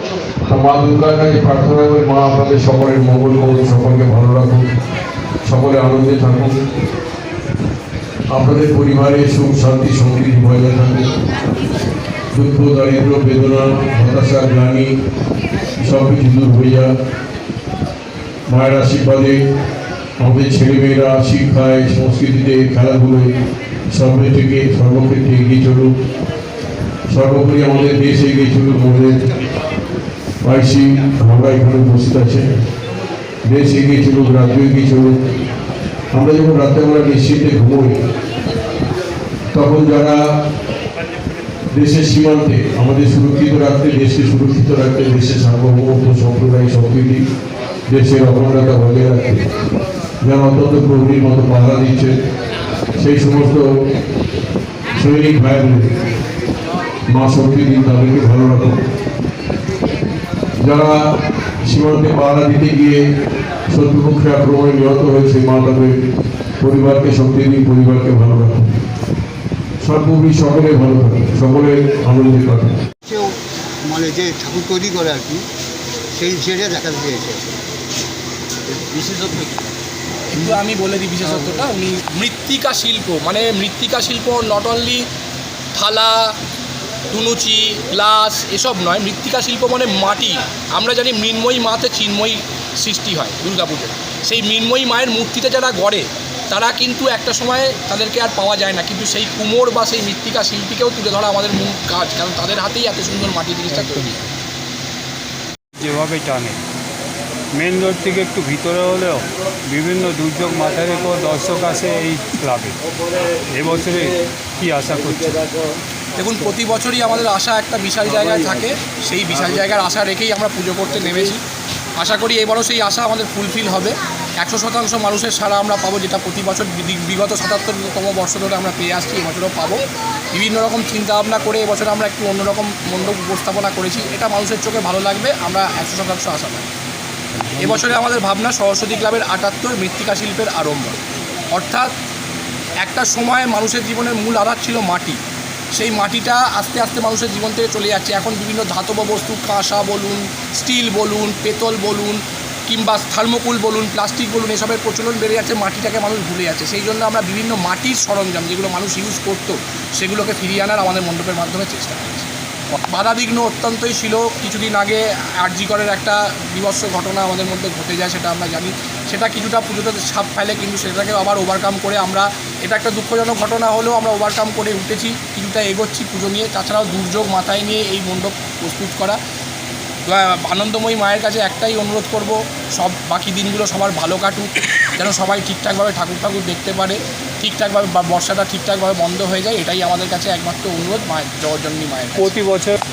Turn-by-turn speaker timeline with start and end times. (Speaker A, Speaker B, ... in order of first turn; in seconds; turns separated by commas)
Speaker A: 0.4-4.7, Speaker A: 5.4-6.6, Speaker A: 8.3-11.1, Speaker A: 12.3-14.9, Speaker A: 15.8-16.9, Speaker A: 18.5-19.5, Speaker A: 20.2-23.3, Speaker A: 23.9-25.9, Speaker A: 27.1-29.2, Speaker A: 30.4-32.6, Speaker A: 33.4-35.2, Speaker A: 36.1-38.0, Speaker A: 39.5-40.4, Speaker A: 41.7-47.2, Speaker A: 47.9-49.5, Speaker A: 50.2-52.2, Speaker A: 53.0-53.8, Speaker A: 54.9-56.0, Speaker A: 57.1-58.8, Speaker A: 60.6-63.0, Speaker A: 63.7-66.0, Speaker A: 66.6-68.8, Speaker A: 69.8-72.8, Speaker B: 73.0-75.4, Speaker B: 76.1-77.5, Speaker B: 78.7-79.6, Speaker C: 80.3-85.1, Speaker C: 85.7-86.4, Speaker C: 87.1-104.3, Speaker D: 103.7-104.1, Speaker D: 105.8-106.6, Speaker D: 107.5-112.8, Speaker D: 113.3-115.6, Speaker C: 116.1-121.4, Speaker C: 122.0-136.7, Speaker D: 137.4-137.8, Speaker C: 137.5-141.9, Speaker C: 142.8-145.2, Speaker C: 145.7-179.2, Speaker C: 180.1-192.3, Speaker D: 192.2-192.8